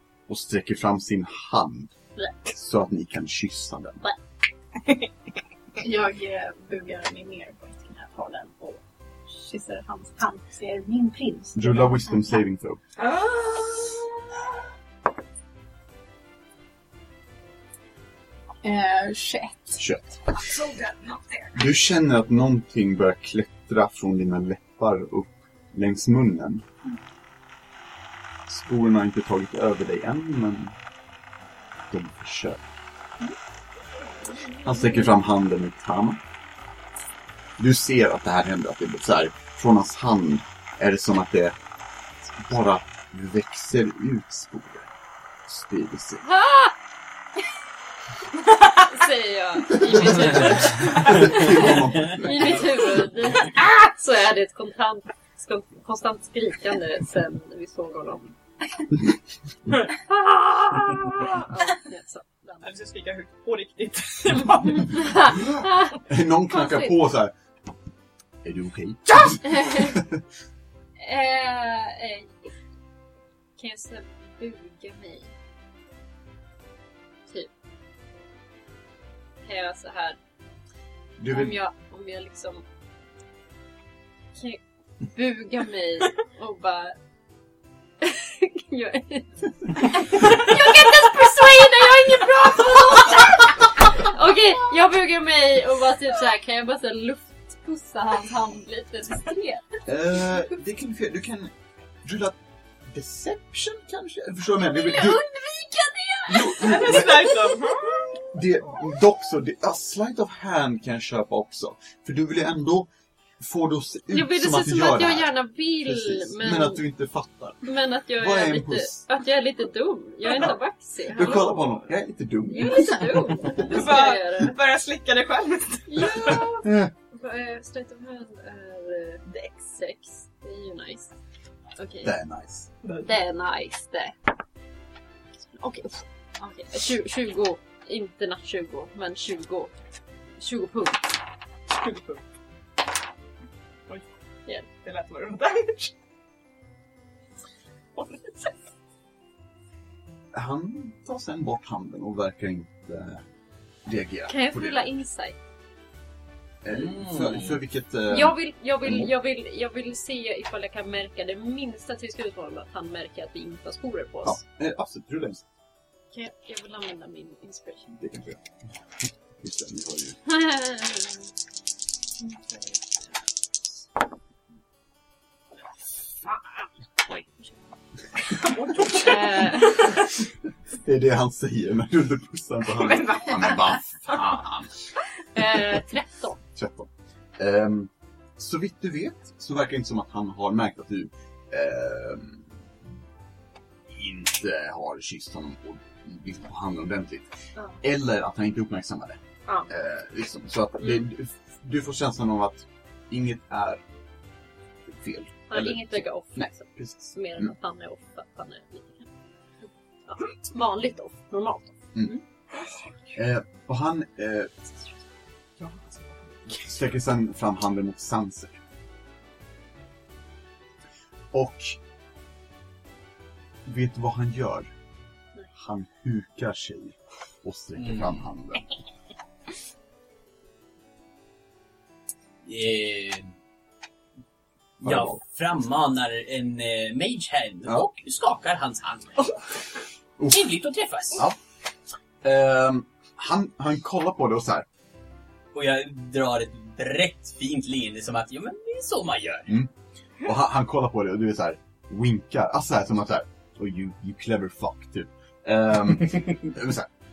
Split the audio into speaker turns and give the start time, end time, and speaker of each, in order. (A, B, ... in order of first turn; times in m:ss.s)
0:00.3-0:01.9 A
0:02.2-0:02.5 B
0:02.5-0:04.0 A
0:04.8-0:05.1 C
0:05.8-0:12.4 D
0:11.6-0:12.8 A
0:13.0-0:14.4 C
0:18.6-0:19.8 D
0:19.8-0:20.3 A
0:20.4-0:21.7 C
0:21.5-0:26.6 A
0:28.5-0:30.8 A
0:31.9-0:32.7 A
0:34.6-0:36.2 A
0:37.6-0:41.6 A
0:42.2-0:44.9 A
0:45.5-0:46.2 A
0:46.2-0:46.8 B
0:48.8-0:58.3 B
0:49.7-0:52.9 A
0:59.7-1:01.4 C
1:00.2-1:02.7 B
1:02.6-1:05.5 C
1:04.8-1:07.0 B
1:06.0-1:07.3 A
1:08.4-1:10.2 A
1:09.4-1:10.0 B
1:11.0-1:12.5 B
1:13.6-1:15.3 B
1:19.4-1:20.2 B
1:21.2-1:21.6 A
1:21.3-1:22.6 B
1:24.4-1:24.6 B
1:25.1-1:27.0 B
1:28.0-1:39.8 B
1:39.9-1:45.3 A
1:44.8-1:45.6 D
1:45.3-1:46.4 B
1:46.3-1:47.5 A
1:46.4-1:47.3 D
1:46.6-1:48.2 C
1:48.2-1:59.0 A
1:54.1-1:56.8 B
1:57.6-2:01.8 B
2:01.1-2:03.7 A
2:02.5-2:04.6 B
2:03.6-2:06.5 C
2:05.9-2:11.1 B
2:06.6-2:06.9 A
2:11.8-2:12.1 B
2:12.0-2:12.7 A
2:12.8-2:13.1 C
2:13.0-2:14.2 B
2:15.5-2:19.7 B
2:20.4-2:21.2 B
2:21.7-2:22.2 C
2:24.7-2:25.9 C
2:28.0-2:28.6 C
2:30.3-2:33.2 A
2:33.8-2:34.9 A
2:34.3-2:35.4 B
2:36.6-2:39.1 A
2:36.7-2:37.6 E
2:38.1-2:44.4 B
2:44.2-2:45.4 A
2:46.1-2:48.0 B
2:48.0-2:48.4 A
2:49.4-2:50.2 A
2:50.3-2:51.2 B
2:57.1-2:57.4 B
2:58.5-3:00.0 C
2:58.8-3:00.0 B
3:00.7-3:04.8 A
3:02.8-3:03.6 C
3:05.3-3:06.4 B
3:06.6-3:12.6 A
3:13.9-3:17.3 A
3:17.8-3:23.8 A
3:24.9-3:27.5 A
3:25.5-3:29.1 B
3:30.1-3:32.2 B
3:33.1-3:34.6 A
3:36.5-3:38.6 A
3:41.3-3:41.8 A
3:43.6-3:44.7 A
3:45.6-3:48.7 A
3:47.8-3:48.2 E
3:52.4-3:53.3 E
3:54.8-3:55.2 A
3:54.8-3:59.8 E
4:00.2-4:00.5 A
4:00.3-4:01.3 E
4:02.2-4:04.7 A
4:05.5-4:09.6 E
4:09.5-4:16.9 A